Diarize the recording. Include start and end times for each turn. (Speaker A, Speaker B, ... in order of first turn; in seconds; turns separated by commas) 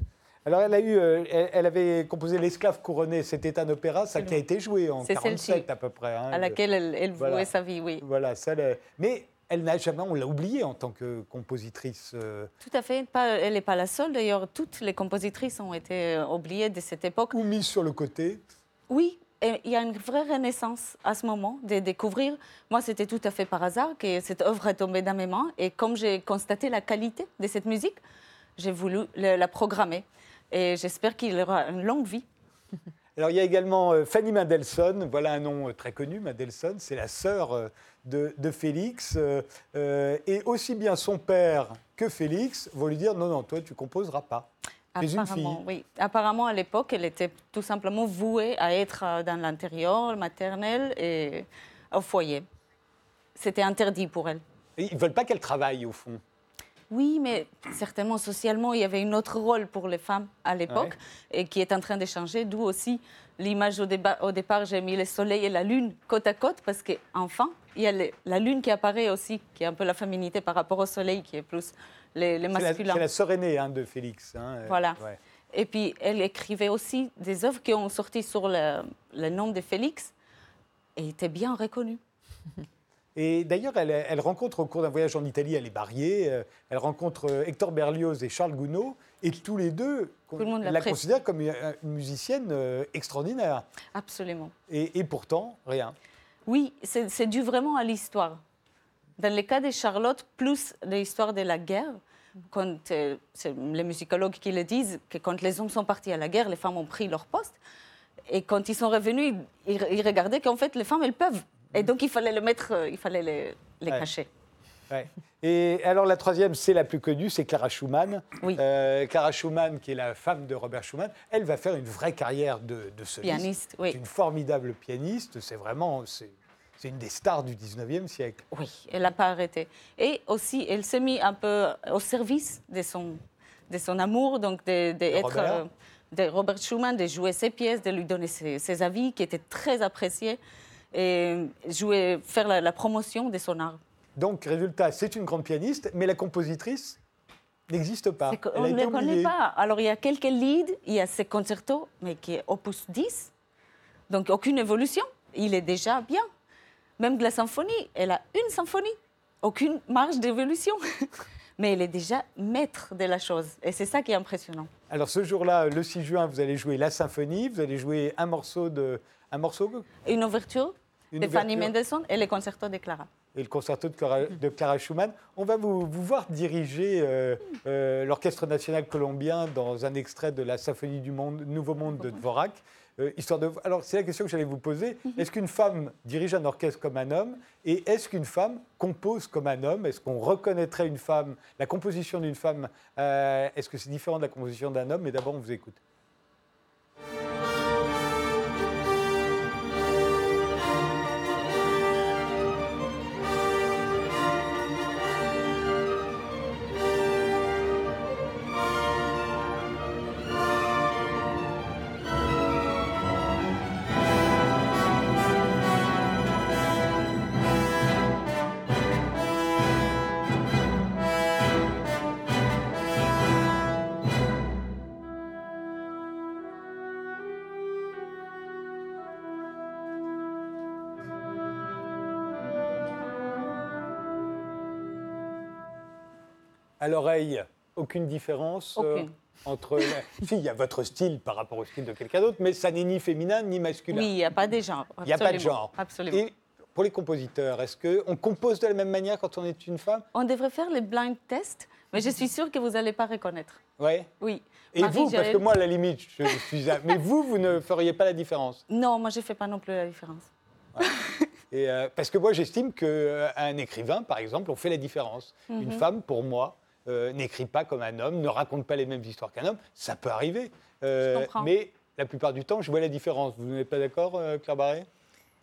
Speaker A: 0.5-6.6, Speaker B: 4.1-4.4, Speaker B: 5.0-5.7, Speaker B: 6.3-8.0, Speaker A: 7.2-12.5, Speaker B: 12.6-17.4, Speaker A: 17.3-18.4, Speaker B: 18.9-28.0, Speaker B: 28.6-32.2, Speaker A: 33.1-45.6, Speaker B: 44.9-52.4, Speaker B: 53.3-54.4, Speaker A: 54.8-56.2, Speaker B: 56.9-73.0, Speaker A: 60.7-60.9, Speaker A: 72.5-75.2, Speaker B: 74.7-75.0, Speaker B: 75.5-80.1, Speaker B: 81.0-82.0, Speaker A: 83.1-93.7, Speaker B: 90.4-91.0, Speaker B: 93.9-94.5, Speaker A: 94.7-96.0, Speaker B: 96.5-98.4, Speaker B: 99.2-107.6, Speaker B: 108.3-114.3, Speaker A: 114.9-128.4, Speaker B: 123.2-124.0, Speaker B: 128.5-140.4, Speaker A: 135.1-135.6, Speaker B: 140.9-143.8, Speaker A: 144.2-147.0, Speaker A: 147.7-149.3, Speaker B: 148.3-153.3, Speaker B: 154.1-156.2, Speaker B: 157.0-164.7, Speaker A: 164.9-169.9, Speaker B: 170.0-173.1, Speaker A: 171.1-171.7, Speaker A: 173.3-195.8, Speaker A: 236.8-244.1, Speaker B: 238.8-239.1, Speaker B: 243.9-246.2, Speaker A: 245.0-250.1, Speaker B: 250.1-253.6, Speaker A: 253.8-254.1, Speaker B: 254.2-255.5, Speaker A: 254.7-258.6, Speaker B: 258.7-260.3, Speaker B: 260.8-261.2, Speaker A: 261.5-274.9, Speaker B: 265.5-265.8, Speaker B: 271.0-271.5